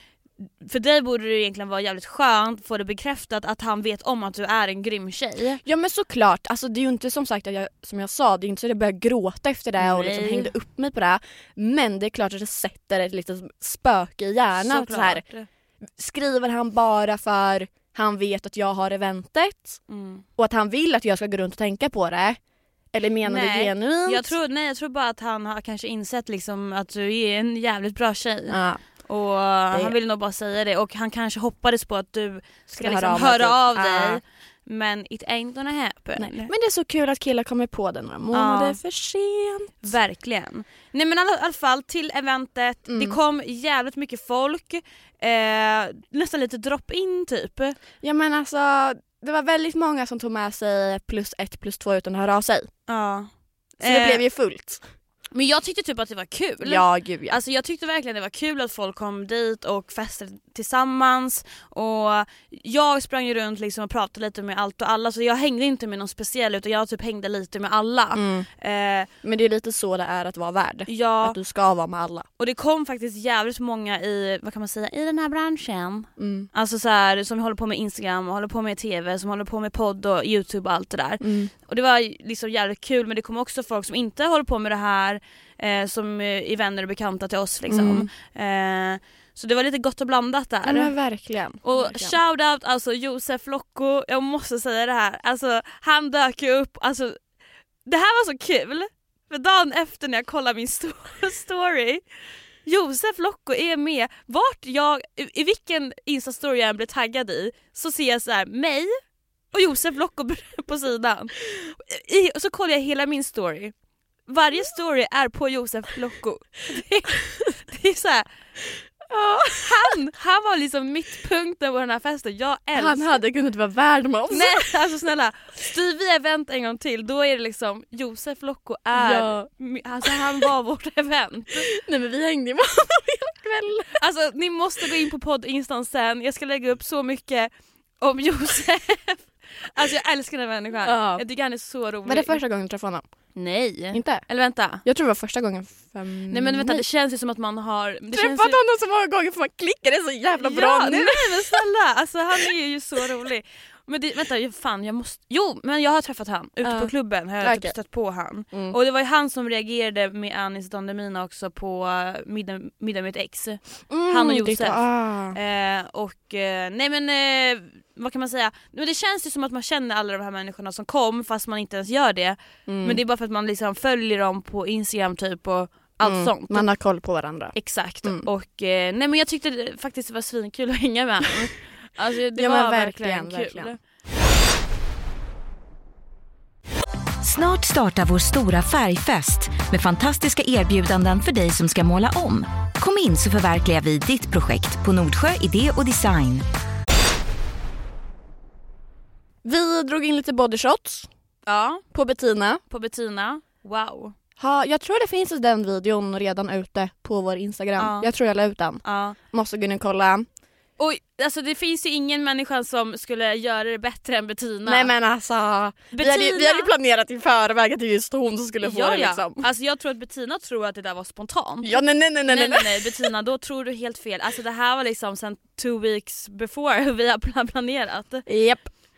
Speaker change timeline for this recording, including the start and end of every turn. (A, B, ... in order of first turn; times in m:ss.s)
0:00.4-0:05.6 A
0:05.6-0:15.2 B
0:09.8-0:10.5 A
0:14.6-0:15.5 A
0:16.0-0:19.8 B
0:19.9-0:20.2 A
0:20.4-0:22.4 B
0:22.9-0:24.3 B
0:23.2-0:36.5 A
0:28.5-0:28.8 B
0:32.7-0:34.2 B
0:36.2-0:39.9 B
0:38.3-0:38.8 A
0:39.8-0:47.8 A
0:42.9-0:43.2 B
0:48.0-0:52.7 B
0:52.9-0:54.2 A
0:53.8-0:54.8 B
0:55.3-1:09.1 A
0:56.6-0:57.4 B
1:08.1-1:08.5 B
1:09.2-1:12.3 B
1:10.9-1:11.4 A
1:12.4-1:30.9 A
1:16.2-1:16.5 B
1:21.2-1:21.5 B
1:27.7-1:28.1 B
1:30.6-1:32.2 B
1:31.6-1:37.2 A
1:37.8-1:42.0 A
1:42.6-1:49.0 A
1:49.5-1:53.7 A
1:54.3-1:58.3 A
1:59.1-1:59.9 B
1:59.6-2:03.2 A
2:02.8-2:04.7 B
2:04.3-2:11.7 A
2:08.9-2:09.5 B
2:10.0-2:10.4 B
2:11.6-2:14.0 B
2:14.0-2:22.4 A
2:20.8-2:21.2 B
2:22.0-2:23.0 B
2:23.4-2:24.8 A
2:23.9-2:24.2 B
2:24.8-2:26.8 B
2:26.3-2:28.6 A
2:28.1-2:31.6 B
2:30.4-2:56.6 A
2:36.6-2:37.7 B
2:43.9-2:45.4 B
2:52.6-2:53.0 B
2:56.0-2:58.3 B
2:57.5-3:03.8 A
3:02.4-3:03.7 B
3:07.2-3:16.4 C
3:19.4-3:21.1 B
3:21.4-3:21.8 A
3:21.9-3:22.6 B
3:22.7-3:24.1 A
3:24.4-3:30.3 B
3:27.8-3:28.1 A
3:28.8-3:29.2 A
3:30.8-3:34.9 A
3:34.6-3:39.4 B
3:35.9-3:36.7 A
3:38.6-3:48.2 A
3:41.6-3:43.1 B
3:48.2-3:48.7 B